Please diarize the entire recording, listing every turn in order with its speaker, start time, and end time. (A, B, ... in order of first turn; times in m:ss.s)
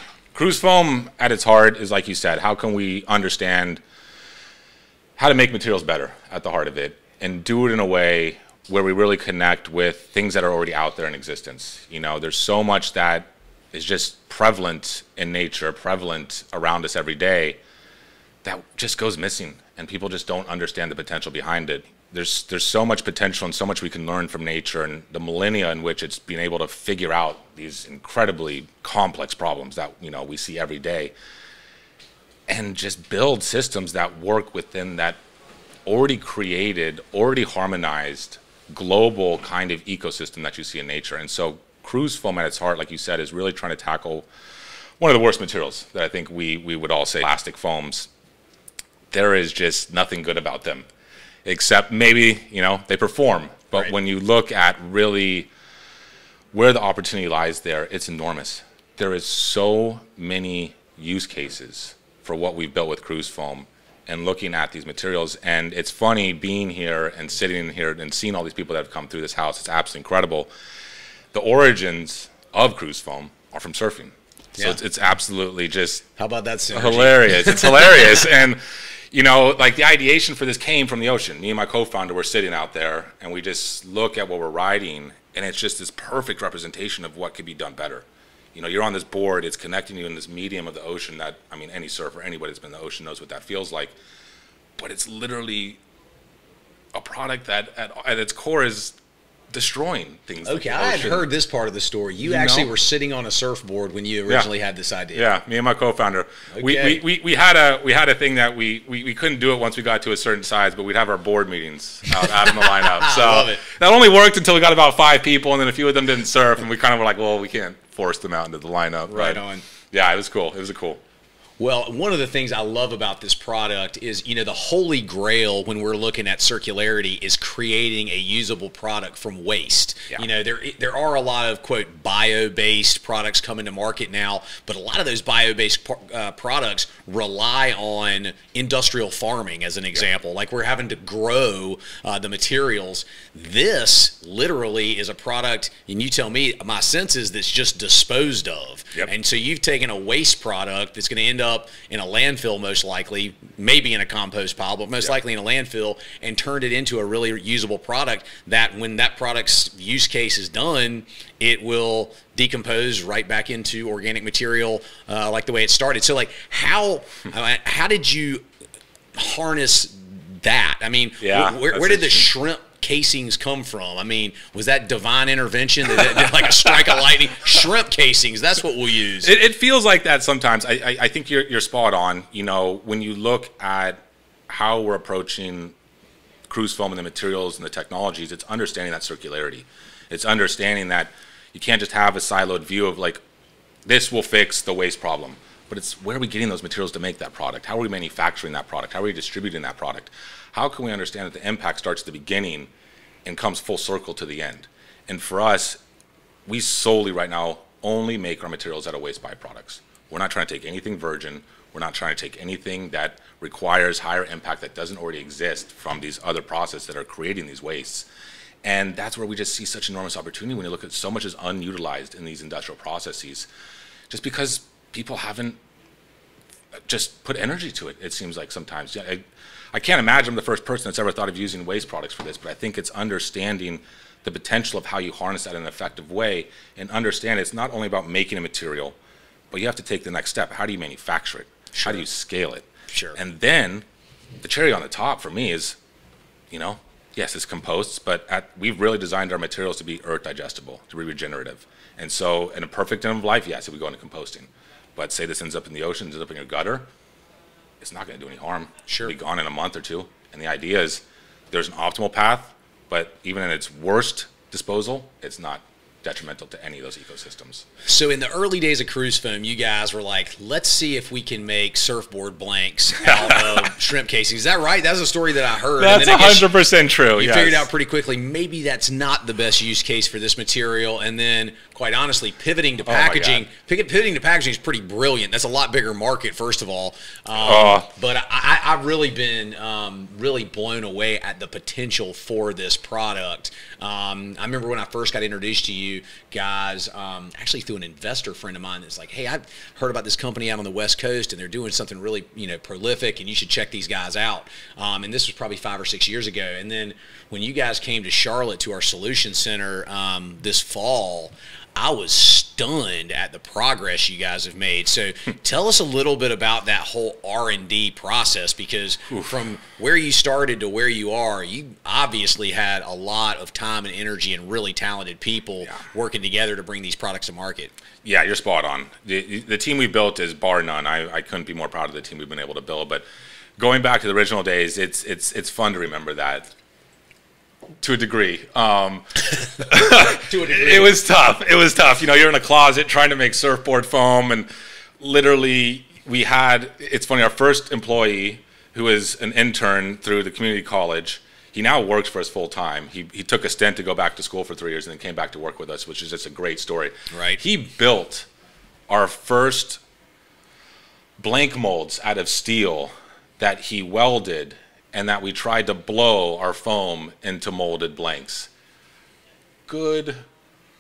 0:00.3-0:03.8 A
0:05.2-0:17.6 A
0:18.4-0:31.1 A
0:32.5-0:35.2 A
0:35.9-0:44.3 A
0:45.0-0:48.1 A
0:49.1-0:50.9 A
0:51.4-0:55.5 A
0:56.5-1:10.5 A
1:11.3-1:16.0 A
1:16.2-1:17.8 B
1:16.7-1:33.9 A
1:34.8-1:35.8 A
1:36.9-1:39.0 A
1:39.5-1:41.3 A
1:40.4-1:45.3 B
1:42.2-1:42.7 A
1:45.1-2:01.0 A
1:46.5-1:47.0 B
1:52.2-1:53.6 B
1:59.1-1:59.7 B
2:01.6-2:48.5 B
2:49.2-2:59.3 B
2:51.2-2:52.3 A
2:59.2-3:04.0 A
3:04.5-3:05.8 A
3:06.5-3:13.2 A
3:13.8-3:22.7 A
3:23.2-3:25.8 A
3:26.5-3:38.1 A
3:38.6-3:43.5 A
3:44.1-3:45.6 A
3:46.8-3:59.0 A
3:59.5-4:03.8 A
4:01.7-4:02.0 B
4:02.9-4:03.2 B
4:04.4-4:05.8 A
4:06.5-4:16.9 A
4:17.8-4:27.7 A
4:18.9-4:19.1 B
4:27.8-4:36.5 B
4:33.0-4:33.6 A
4:35.8-4:37.7 A
4:37.2-5:27.7 B
4:42.9-4:43.4 A
4:47.4-4:47.9 A
5:28.0-5:33.0 A
5:33.6-5:36.5 A
5:37.8-5:44.5 A
5:40.2-5:41.0 B
5:45.0-5:58.3 A
5:57.1-5:57.4 B
5:58.9-5:59.8 A
6:01.2-6:08.5 A
6:09.7-6:10.2 A